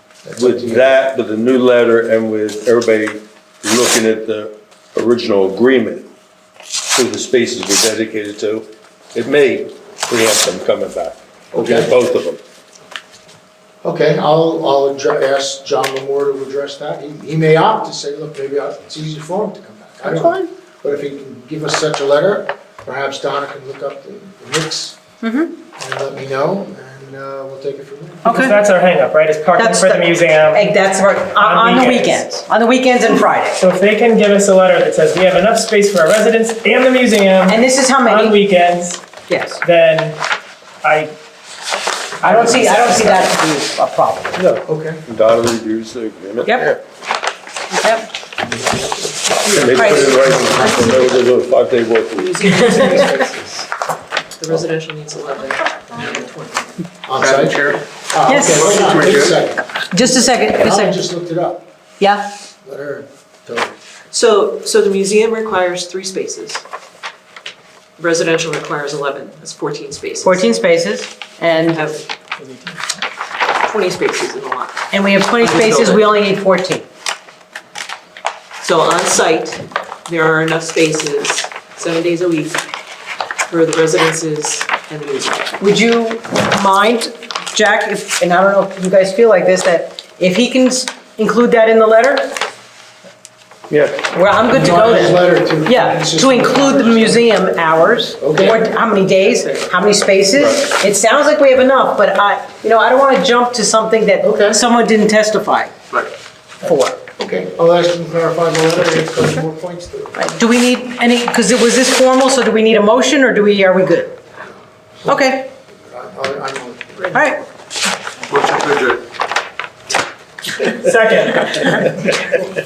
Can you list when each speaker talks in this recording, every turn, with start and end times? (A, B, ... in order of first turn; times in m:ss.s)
0:00.2-0:00.9 A
0:00.4-0:06.1 B
0:06.9-0:12.4 B
0:11.5-0:11.9 A
0:13.8-0:25.0 A
0:20.0-0:20.5 C
0:25.2-0:25.5 C
0:25.8-0:28.5 A
0:28.2-0:30.7 D
0:28.2-0:28.6 C
0:29.6-0:33.6 C
0:31.4-0:32.2 D
0:33.6-0:39.1 D
0:37.5-0:38.4 C
0:39.3-0:39.6 C
0:39.6-0:40.2 D
0:40.8-0:41.1 D
0:42.2-0:43.3 D
0:42.2-0:44.4 C
0:44.3-0:46.7 B
0:44.7-0:45.0 A
0:46.4-0:46.8 C
0:47.8-0:48.1 C
0:48.4-0:51.2 A
0:49.4-0:52.3 B
0:49.7-0:50.2 C
0:52.2-0:53.7 E
0:52.4-0:53.2 C
0:54.4-0:56.3 E
0:57.0-1:01.6 A
0:57.2-0:57.8 F
0:58.2-0:58.9 C
0:58.4-0:59.4 F
0:59.9-1:01.0 C
1:02.0-1:02.3 C
1:02.6-1:03.7 A
1:04.1-1:06.6 E
1:08.0-1:10.5 E
1:10.2-1:11.8 C
1:11.5-1:12.0 E
1:12.4-1:12.8 D
1:13.6-1:14.9 E
1:14.9-1:16.8 C
1:15.4-1:16.1 E
1:18.6-1:22.6 E
1:23.5-1:25.6 E
1:25.6-1:32.4 C
1:33.7-1:34.0 B
1:34.1-1:45.7 C
1:34.5-1:37.4 A
1:38.2-1:38.6 A
1:44.2-1:44.6 A
1:46.6-1:47.0 C
1:47.2-1:50.2 A
1:50.2-1:54.1 C
1:55.0-1:55.5 C
1:55.8-1:57.3 A
1:57.1-1:57.4 C
1:58.3-1:59.0 F
2:00.6-2:02.0 D
2:01.5-2:01.9 C